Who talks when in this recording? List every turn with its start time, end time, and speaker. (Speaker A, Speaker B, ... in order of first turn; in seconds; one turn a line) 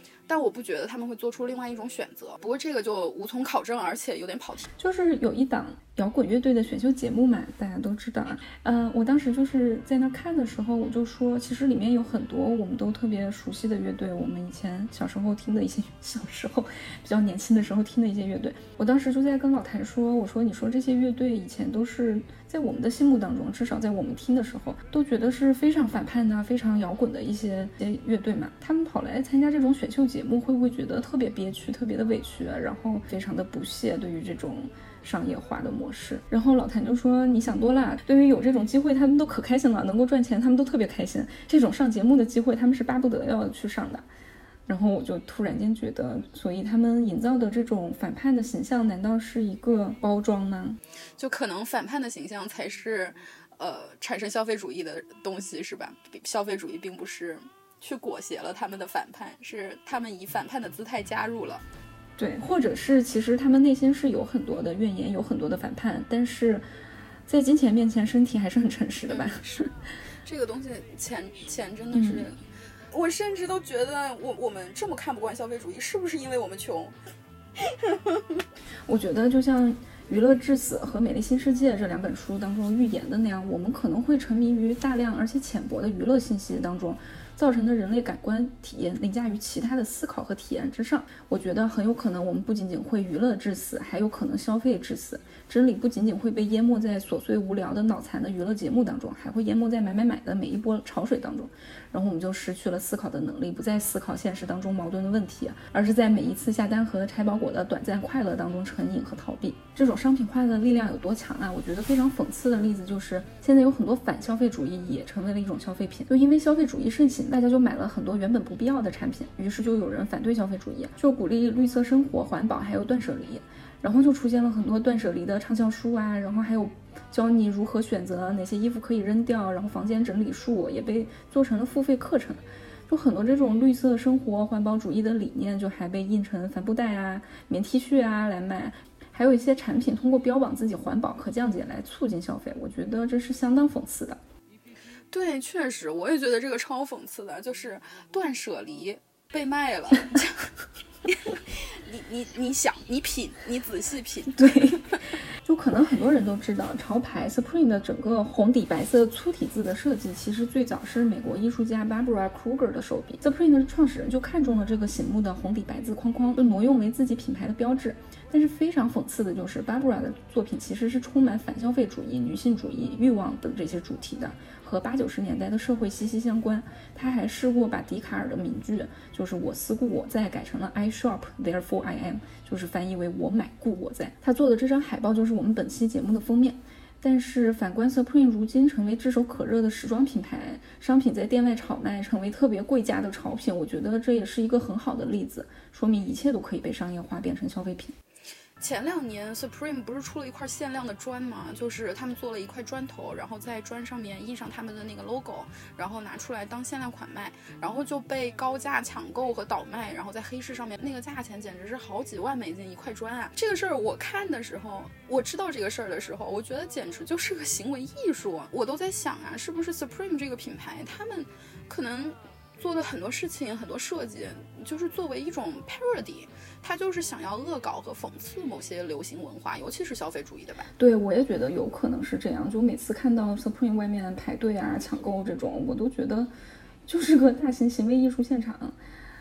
Speaker A: 0.3-4.7
Speaker B: 4.8-44.1
Speaker B: 44.7-50.8
Speaker A: 51.2-61.6
Speaker B: 62.2-66.7
Speaker B: 67.3-69.7
Speaker A: 69.1-69.5
Speaker A: 70.2-72.4
Speaker B: 71.9-72.3
Speaker A: 72.9-77.0
Speaker A: 77.6-78.2
Speaker B: 78.9-144.2
Speaker A: 145.1-150.5
Speaker A: 151.1-155.0
Speaker B: 154.3-154.9
Speaker B: 155.4-197.9
Speaker A: 198.6-230.7
Speaker B: 230.8-236.3
Speaker B: 236.9-238.8